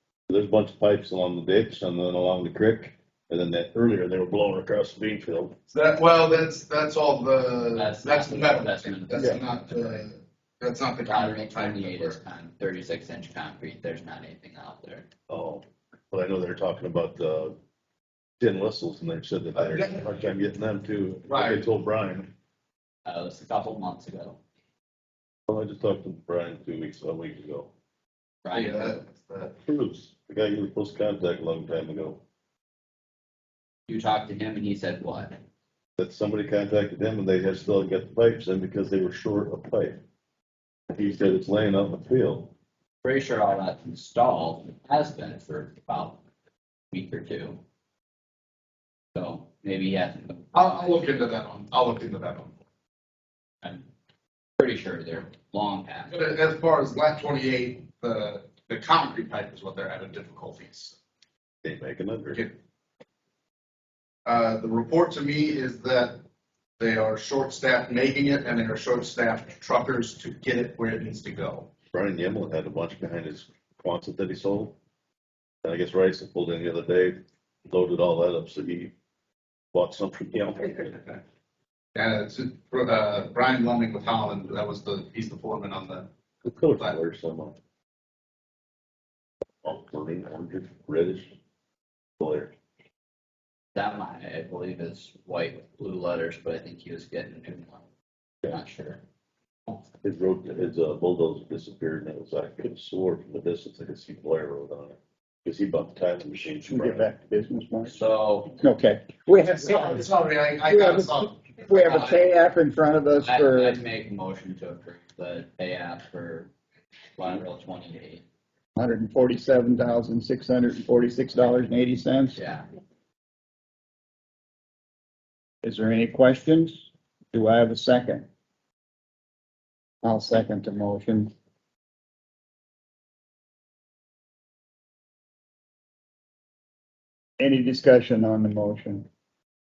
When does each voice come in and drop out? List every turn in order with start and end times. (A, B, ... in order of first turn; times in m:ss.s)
0:00.3-0:05.5 A
0:05.7-0:12.2 B
0:07.8-0:10.0 C
0:11.0-0:15.1 C
0:15.3-0:17.6 A
0:18.4-0:22.3 A
0:19.6-0:20.3 B
0:21.3-0:21.7 B
0:23.0-0:24.4 C
0:25.5-0:27.7 A
0:28.4-0:29.0 C
0:28.5-0:29.5 B
0:29.6-0:32.2 A
0:33.9-0:35.4 C
0:36.0-0:40.0 A
0:40.9-0:42.5 A
0:43.0-0:46.2 C
0:46.9-0:47.6 C
0:49.1-0:51.0 C
0:50.5-0:52.5 B
0:54.6-0:56.1 C
0:56.1-1:01.0 B
1:01.6-1:02.4 A
1:04.2-1:06.2 B
1:06.8-1:11.7 B
1:11.9-1:14.8 A
1:15.6-1:18.9 A
1:19.7-1:21.1 A
1:21.9-1:26.1 B
1:26.4-1:27.6 A
1:29.6-1:31.3 A
1:32.2-1:32.5 A
1:33.7-1:37.8 C
1:38.5-1:39.0 C
1:40.0-1:47.1 A
1:46.7-1:48.0 D
1:47.8-1:48.6 C
1:48.6-1:50.1 D
1:49.5-1:52.2 B
1:50.6-1:53.8 D
1:53.2-1:56.5 C
1:57.2-1:58.2 C
1:58.8-2:02.4 D
2:02.3-2:02.6 C
2:05.6-2:08.3 D
2:10.0-2:11.3 D
2:17.4-2:19.1 D